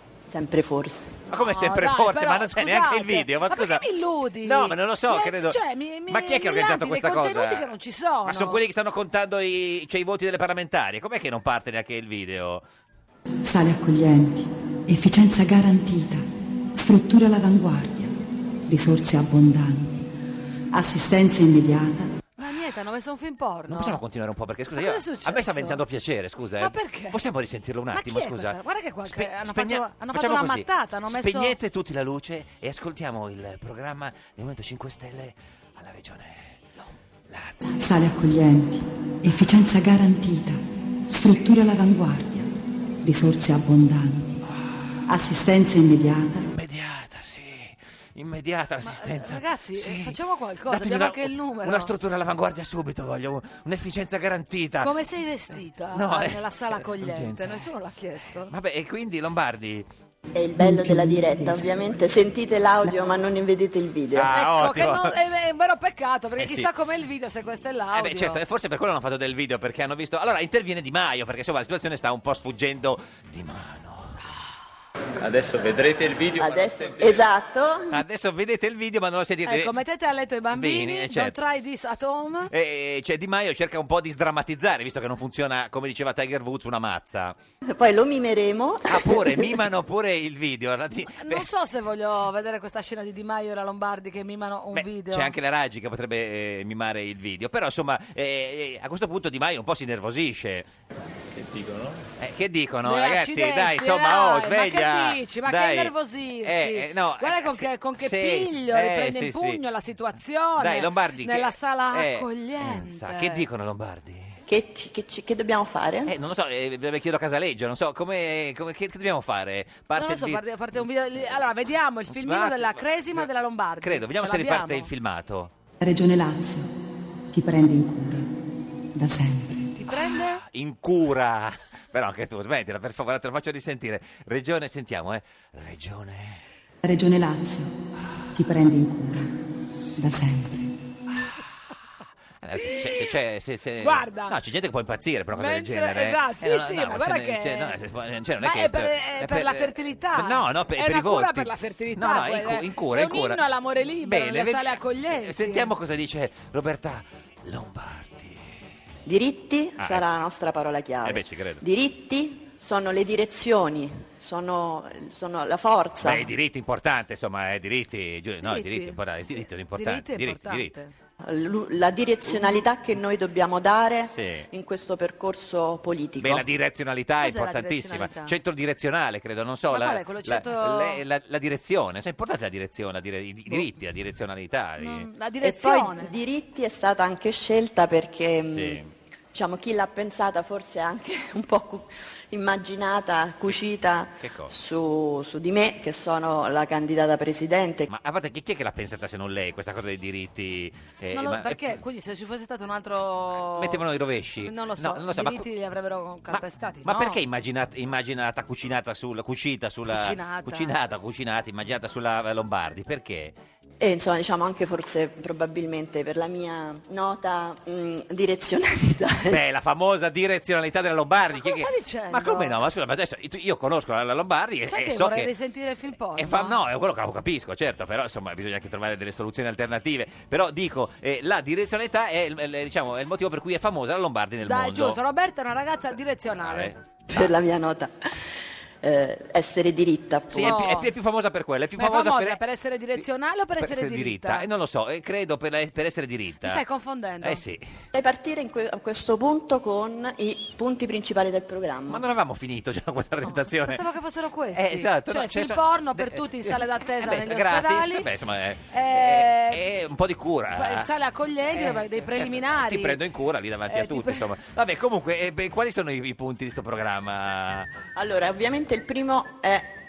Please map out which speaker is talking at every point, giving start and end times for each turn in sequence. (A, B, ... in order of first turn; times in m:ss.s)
0:00.3-0:01.2 A
0:01.3-0:03.8 B
0:01.4-0:08.6 C
0:04.4-0:07.7 B
0:08.2-0:12.6 B
0:13.4-0:18.1 D
0:18.7-0:20.0 D
0:20.7-0:22.1 D
0:22.4-0:24.0 C
0:23.7-0:36.6 B
0:24.8-0:25.8 C
0:26.6-0:27.2 C
0:27.9-0:31.6 C
0:37.3-0:37.7 B
0:37.8-0:42.5 D
0:43.0-0:44.4 D
0:45.1-0:46.5 D
0:46.5-0:50.2 B
0:48.8-0:51.9 C
0:50.7-0:54.9 B
0:54.8-0:58.5 C
0:55.9-0:57.6 B
0:58.5-0:59.9 B
1:00.3-1:04.3 A
1:00.6-1:01.6 D
1:04.1-1:05.2 B
1:04.3-1:08.4 C
1:06.4-1:06.7 B
1:07.9-1:14.1 B
1:15.2-1:17.2 E
1:16.4-1:17.9 A
1:17.9-1:19.7 B
1:19.4-1:22.5 C
1:20.5-1:21.3 B
1:22.5-1:27.4 B
1:27.7-1:29.6 A
1:28.9-1:31.5 B
1:31.2-1:35.3 C
1:34.7-1:40.7 B
1:41.3-1:42.0 E
1:42.2-1:49.6 B
1:42.8-1:53.4 C
1:50.6-1:54.4 B
1:54.5-1:56.1 A
1:56.1-2:00.4 B
1:59.9-2:04.9 C
2:02.1-2:03.3 B
2:03.8-2:05.5 B
2:05.8-2:06.7 D
2:07.3-2:08.3 D
2:08.9-2:09.7 D
2:09.7-2:10.4 C
2:10.1-2:16.4 B
2:16.8-2:17.7 D
2:18.3-2:19.3 D
2:20.0-2:20.7 D
2:22.4-2:33.4 B
2:22.6-2:23.1 C
2:23.8-2:24.4 C
2:25.3-2:27.7 C
2:28.4-2:35.7 C
2:34.0-2:38.4 B
2:39.0-2:46.3 A
2:39.8-2:40.0 B
2:41.0-2:41.6 B
2:46.0-2:50.7 B
2:48.4-2:50.9 C
2:51.2-2:56.5 A
2:52.3-2:52.6 B
2:54.0-2:54.5 B
2:56.2-3:05.1 B
2:57.2-2:58.3 C
2:59.7-3:01.0 C
3:04.8-3:06.1 C
3:05.4-3:08.8 A
3:08.5-3:08.9 B
3:09.3-3:17.9 A
3:14.2-3:14.5 B
3:17.9-3:21.8 B
3:21.1-3:23.8 C
3:23.6-3:25.5 B
3:24.4-3:27.2 C
3:26.3-3:33.3 B
3:29.9-3:30.7 C
3:33.8-3:39.4 A
3:39.3-3:45.3 B
3:41.3-3:42.6 C
3:44.7-3:46.6 C
3:46.2-3:55.0 B
3:54.4-3:56.7 C
3:56.4-3:57.3 B
3:57.1-3:57.9 A
3:58.8-4:00.6 A
4:00.3-4:02.4 B
4:00.4-4:00.9 C
4:01.8-4:04.4 C
4:03.6-4:06.6 B
4:06.4-4:07.4 C
4:07.2-4:07.6 B
4:07.9-4:12.0 A
4:11.9-4:13.8 B
4:13.2-4:18.1 C
4:14.5-4:20.9 B
4:18.7-4:19.6 C
4:20.5-4:23.0 C
4:21.5-4:27.7 B
4:23.7-4:24.3 C
4:28.0-4:29.7 A